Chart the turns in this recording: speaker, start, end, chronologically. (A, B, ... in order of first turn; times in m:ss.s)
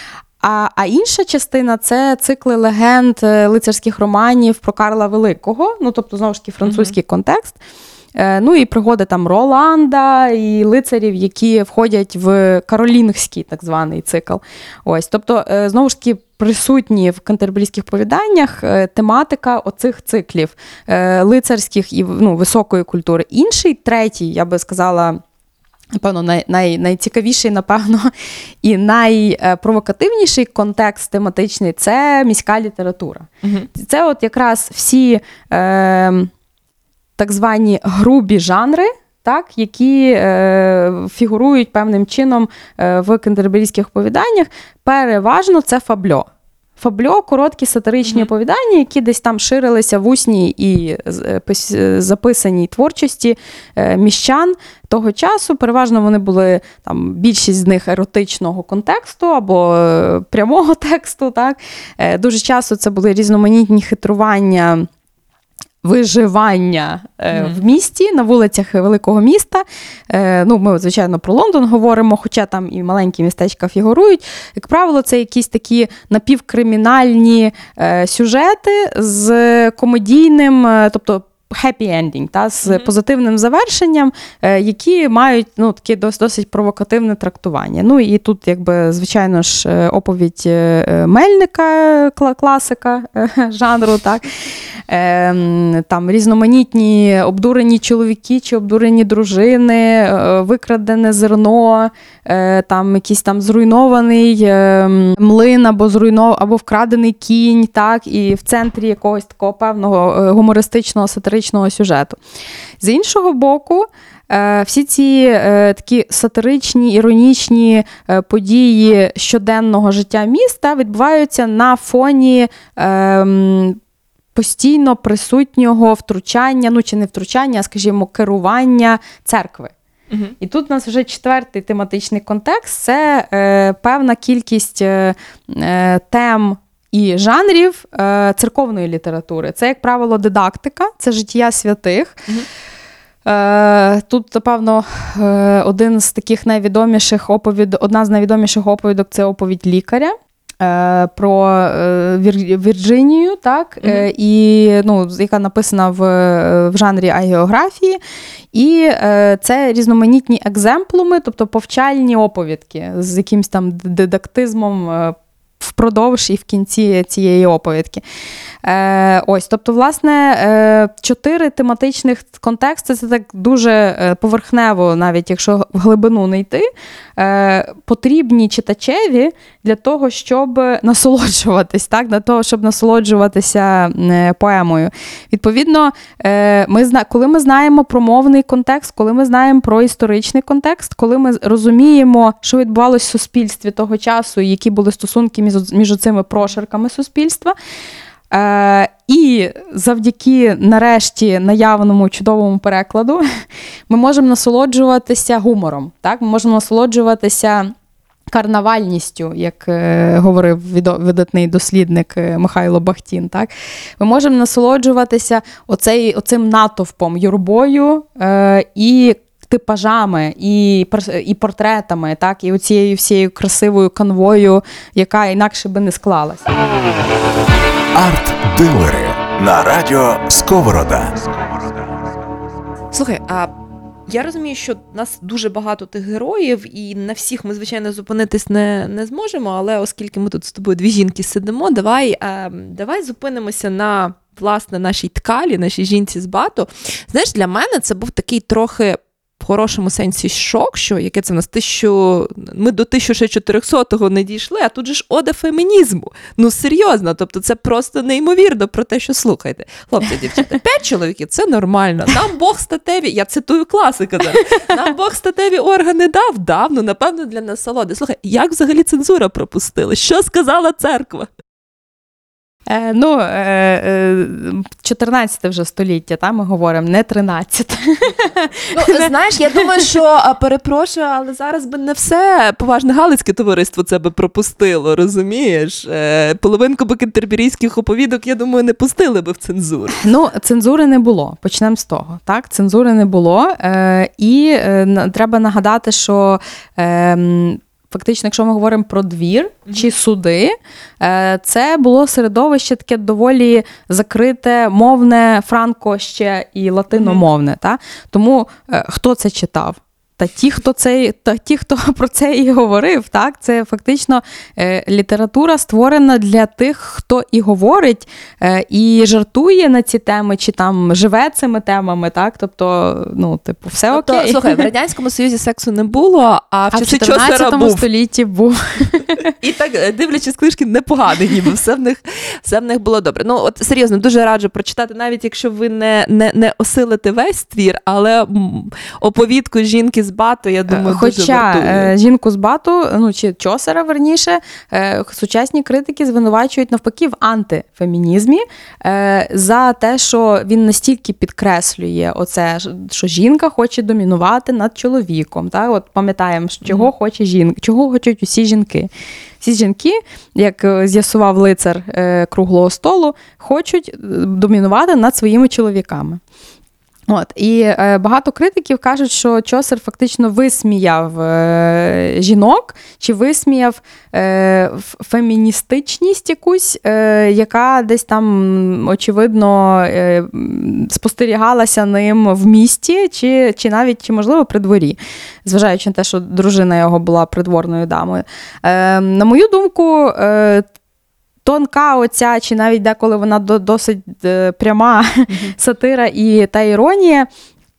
0:00.4-0:07.6 A
0:06.6-0:06.9 B
0:08.2-0:25.2 A
0:26.0-0:28.1 A
0:28.6-0:36.3 A
0:33.4-0:33.7 B
0:37.2-0:46.3 A
0:46.8-1:04.9 A
1:05.8-1:34.3 A
1:07.3-1:07.6 B
1:34.9-1:52.2 A
1:52.8-2:03.8 A
2:04.4-2:09.7 A
2:10.4-2:22.2 A
2:23.3-2:38.0 A
2:33.8-2:34.1 B
2:38.5-2:48.0 A
2:48.6-3:17.6 A
3:18.3-3:23.2 A
3:23.9-3:27.7 A
3:28.3-3:46.5 A
3:48.0-3:51.8 C
3:52.9-3:53.5 B
3:54.1-4:31.3 B
4:32.7-4:39.8 A
4:38.7-4:50.0 B
4:50.0-5:24.7 A
5:06.9-5:07.2 B
5:23.9-5:27.9 B
5:26.7-5:29.3 A
5:29.4-5:41.9 B
5:40.7-5:58.9 A
5:59.4-6:06.2 A
6:07.1-6:30.7 A
6:31.4-6:37.3 A